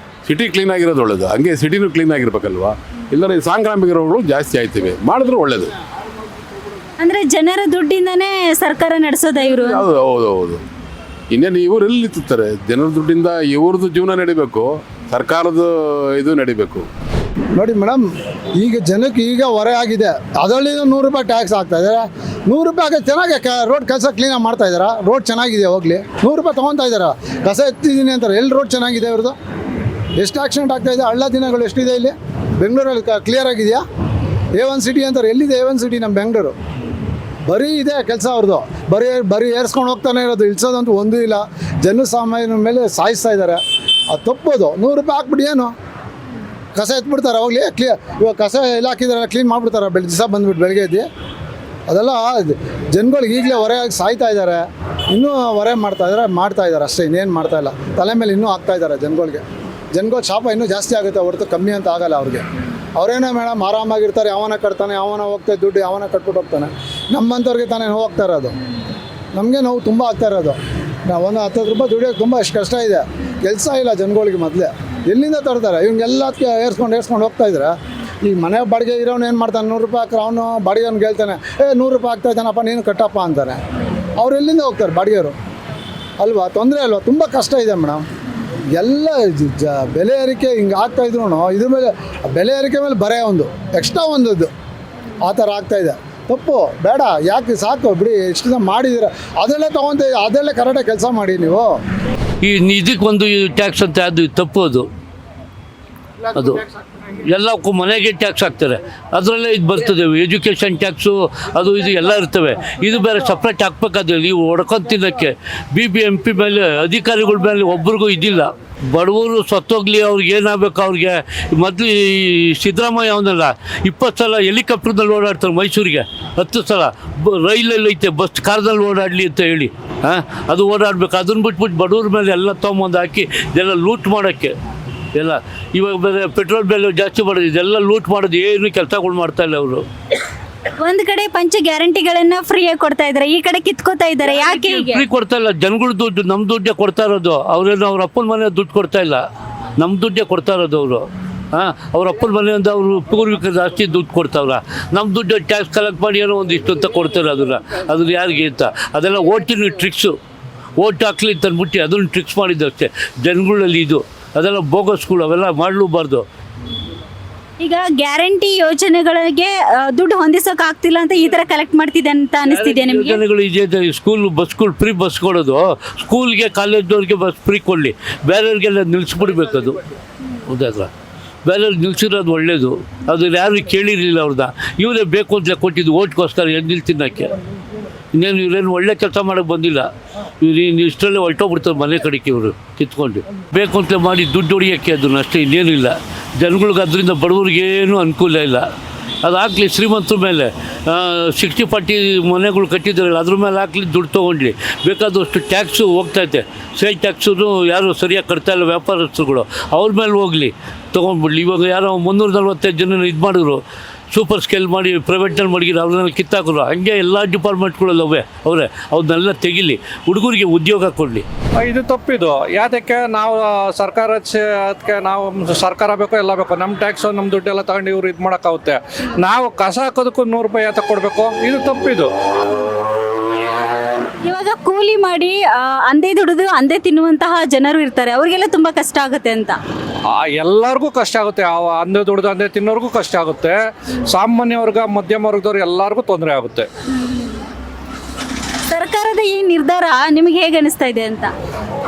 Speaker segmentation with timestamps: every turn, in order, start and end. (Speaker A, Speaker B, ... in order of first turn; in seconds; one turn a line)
Speaker A: 0.2-5.7
Speaker B: 7.0-9.8
Speaker A: 9.5-10.6
Speaker A: 11.3-16.9
Speaker C: 17.6-29.4
Speaker C: 30.2-33.8
Speaker C: 34.6-36.6
Speaker C: 37.5-45.7
Speaker C: 46.8-51.1
Speaker C: 51.9-62.5
Speaker C: 63.0-68.6
Speaker C: 69.3-83.6
Speaker C: 84.2-85.4
Speaker C: 86.2-88.0
Speaker C: 88.8-94.5
Speaker C: 95.2-101.8
Speaker D: 102.4-104.9
Speaker D: 106.3-106.6
Speaker D: 107.3-134.5
Speaker D: 135.2-139.8
Speaker B: 140.8-145.0
Speaker D: 144.4-149.2
Speaker D: 149.8-160.1
Speaker D: 160.8-166.2
Speaker B: 167.6-173.2
Speaker D: 172.5-179.8
Speaker D: 180.4-180.9
Speaker D: 181.4-187.4
Speaker D: 188.1-189.9
Speaker D: 190.4-198.7
Speaker D: 199.2-213.6
Speaker D: 214.1-221.2
Speaker E: 221.6-232.1
Speaker B: 234.2-239.6
Speaker E: 240.2-243.6
Speaker E: 244.1-246.7
Speaker B: 248.7-251.3